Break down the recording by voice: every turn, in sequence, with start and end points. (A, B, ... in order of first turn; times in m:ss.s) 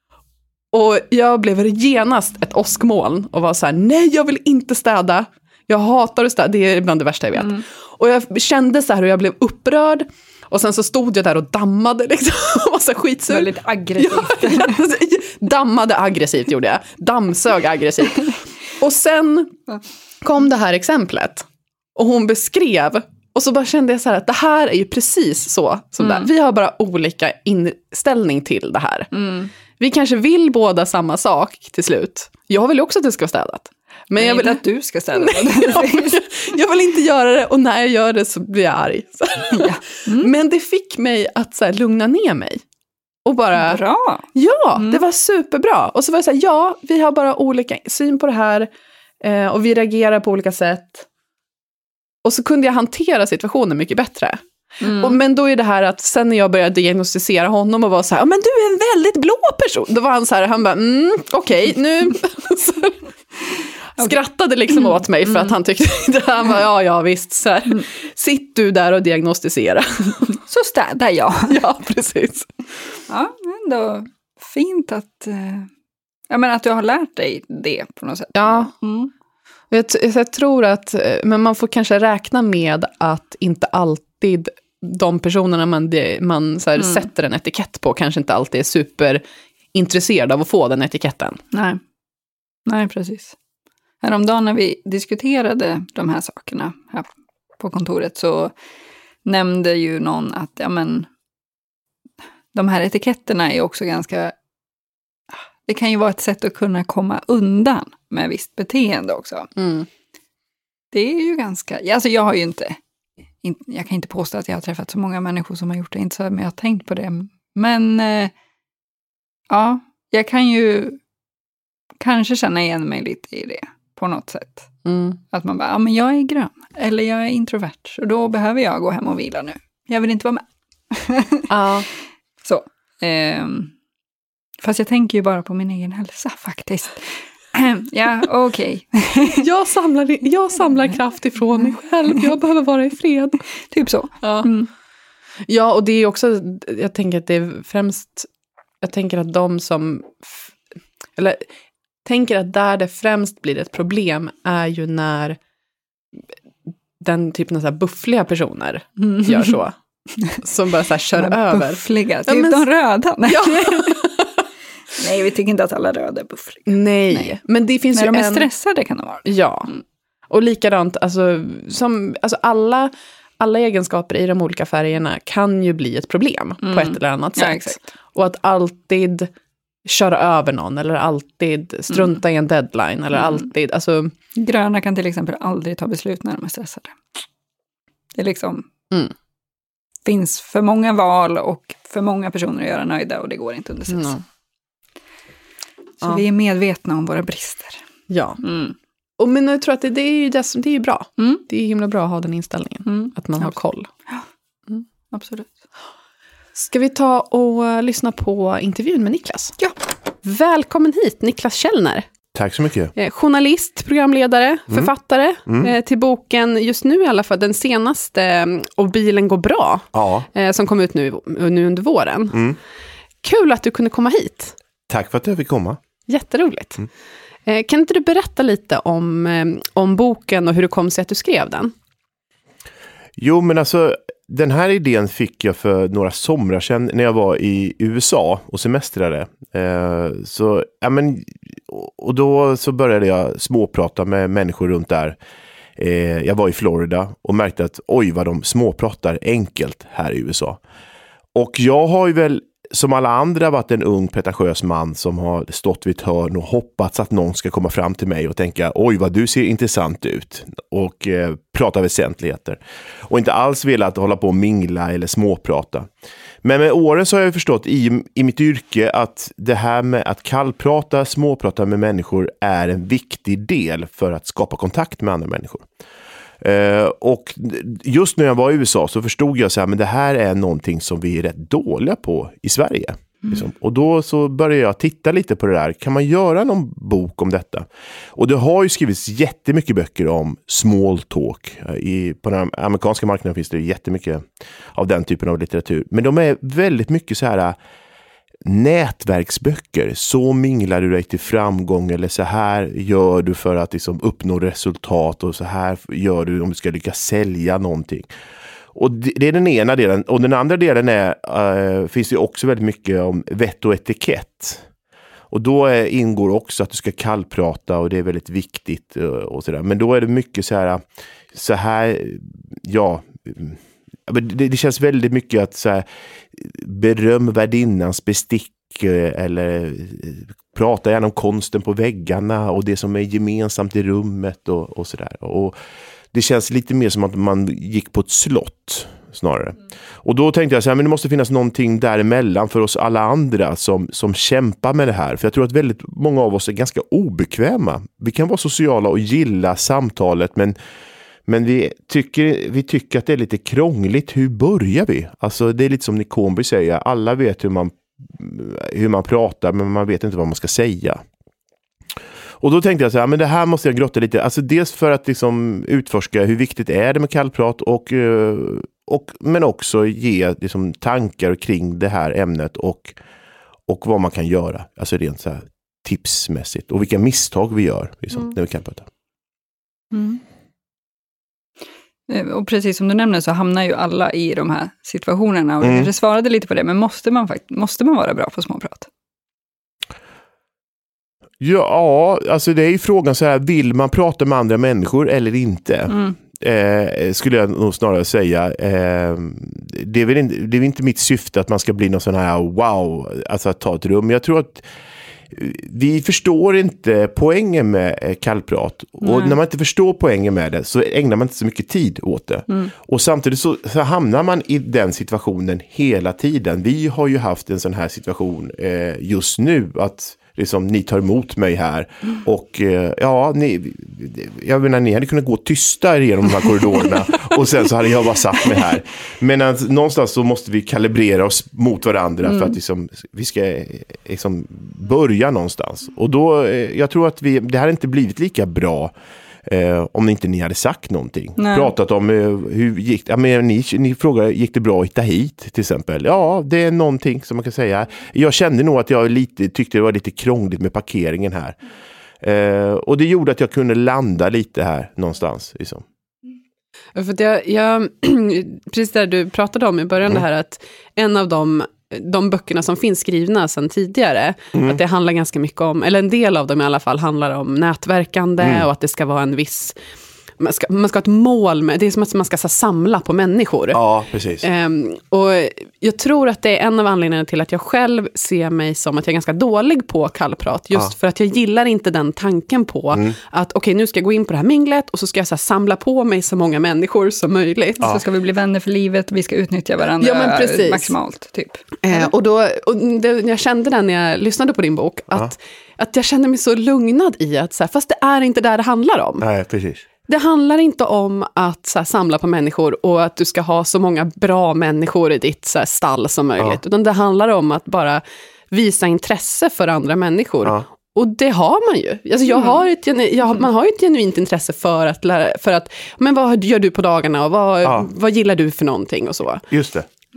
0:00.7-0:19.6 A
0:07.4-0:07.6 B
0:13.3-0:14.8 B
0:20.2-0:29.1 A
0:26.0-0:26.3 B
0:29.1-0:29.5 B
0:29.8-0:34.6 A
0:34.2-0:36.2 B
0:35.1-0:42.6 A
0:39.5-0:40.3 B
0:43.2-0:43.8 A
0:43.6-0:45.0 B
0:44.4-0:48.7 A
0:49.2-0:51.1 A
0:52.2-1:03.1 A
0:54.8-0:55.2 B
1:04.0-1:10.4 A
1:04.7-1:05.6 B
1:10.4-1:11.6 B
1:11.5-1:12.6 A
1:13.1-1:15.7 B
1:16.3-1:19.1 B
1:18.4-1:18.7 A
1:19.7-1:29.2 A
1:26.8-1:27.0 B
1:29.7-1:31.4 A
1:31.5-1:31.8 B
1:32.7-1:33.4 B
1:34.0-1:37.1 B
1:37.6-1:38.5 B
1:39.2-1:41.1 B
1:42.5-1:44.4 B
1:45.3-1:49.5 B
1:49.6-1:49.9 A
1:50.9-1:52.8 B
1:53.4-1:58.3 B
1:59.5-2:01.0 B
2:02.0-2:04.7 B
2:04.8-2:05.2 A
2:05.3-2:11.5 B
2:11.5-2:11.9 A
2:12.4-2:13.7 B
2:14.6-2:19.4 B
2:19.3-2:23.4 A
2:23.7-2:24.7 B
2:24.2-2:24.5 A
2:25.5-2:28.3 A
2:28.8-2:30.5 A
2:31.2-2:31.5 A
2:32.0-2:35.4 A
2:37.0-2:39.8 A
2:39.0-2:39.6 B
2:40.3-2:42.7 A
2:41.1-2:44.1 B
2:43.2-2:44.3 A
2:45.0-2:47.4 B
2:46.7-2:48.5 A
2:47.9-2:49.8 B
2:49.2-2:49.7 A
2:50.3-2:59.3 A
2:56.6-2:57.8 B
2:59.8-3:04.1 A
3:04.4-3:07.2 B
3:08.2-3:08.7 B
3:10.0-3:14.2 B
3:13.9-3:14.2 A
3:16.0-3:17.8 B
3:18.1-3:18.4 A
3:18.4-3:18.8 B
3:19.2-3:23.9 A
3:21.2-3:21.4 B
3:22.9-3:23.6 B
3:25.1-3:25.5 B
3:26.6-3:29.6 A
3:30.2-3:32.1 A
3:32.3-3:32.9 C
3:33.0-3:42.4 A
3:35.5-3:35.7 C
3:39.9-3:40.3 C
3:42.3-3:42.6 C
3:43.2-3:44.6 A
3:44.9-3:45.8 C
3:46.1-3:46.9 A
3:47.5-3:51.7 A
3:53.2-4:05.2 C
4:05.8-4:10.6 C
4:11.3-4:25.9 C
4:26.4-4:35.7 C
4:36.4-4:57.6 C
4:58.4-5:08.1 C
5:08.7-5:14.6 C
5:15.3-5:35.6 C
5:36.1-5:50.6 C
5:51.3-6:01.0 C
6:02.4-6:13.0 C
6:13.7-6:18.9 C
6:19.9-6:20.2 B
6:22.1-6:28.9 B
6:25.6-6:25.9 C
6:31.4-6:44.7 C
6:35.9-6:36.2 B
6:45.3-7:18.9 C
6:49.0-6:49.4 B
7:12.2-7:12.6 B
7:19.4-7:31.6 C
7:21.4-7:21.7 B
7:32.2-7:35.8 C
7:37.0-7:49.8 A
7:48.4-7:48.7 C
7:50.4-7:53.8 A
7:53.7-7:54.4 C
7:54.4-8:07.9 A
8:07.8-8:12.1 B
8:10.0-8:11.0 A
8:11.8-8:19.3 A
8:19.2-8:19.8 C
8:20.1-8:39.5 A
8:39.5-8:39.9 C